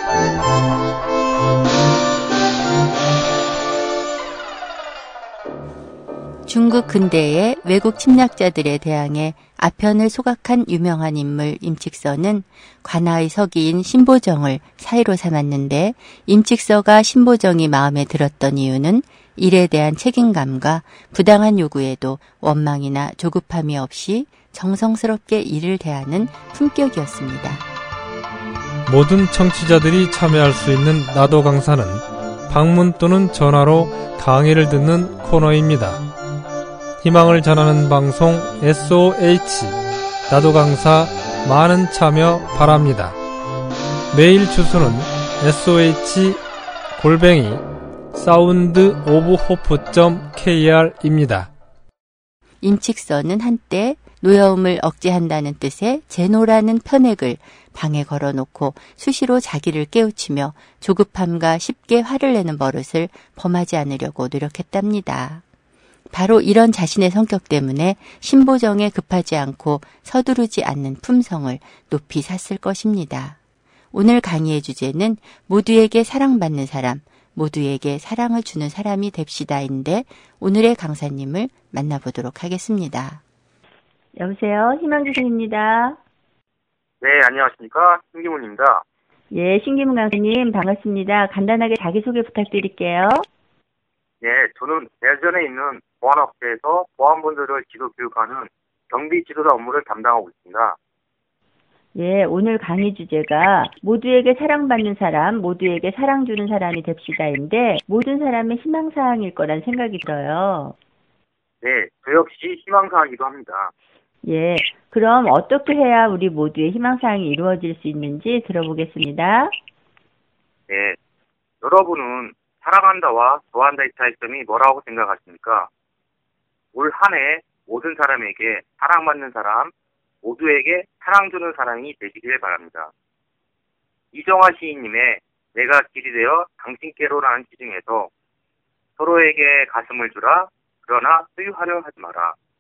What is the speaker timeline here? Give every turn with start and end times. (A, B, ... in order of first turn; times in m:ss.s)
0:06.5-0:27.6 A
0:28.9-0:36.0 B
0:37.0-0:43.2 B
0:44.1-0:46.4 B
0:47.0-0:51.5 B
0:52.6-1:05.4 A
1:06.1-1:13.4 A
1:13.9-1:23.2 A
1:24.2-1:26.0 C
1:27.0-1:28.8 D
1:29.3-1:33.3 C
1:34.2-1:40.8 D
1:42.0-1:50.8 C
1:51.6-1:53.7 D
1:54.2-1:59.6 C
2:00.7-2:01.0 D
2:01.6-2:05.7 D
2:06.7-2:09.7 D
2:10.2-2:12.9 D
2:14.1-2:18.1 D
2:19.0-2:22.4 D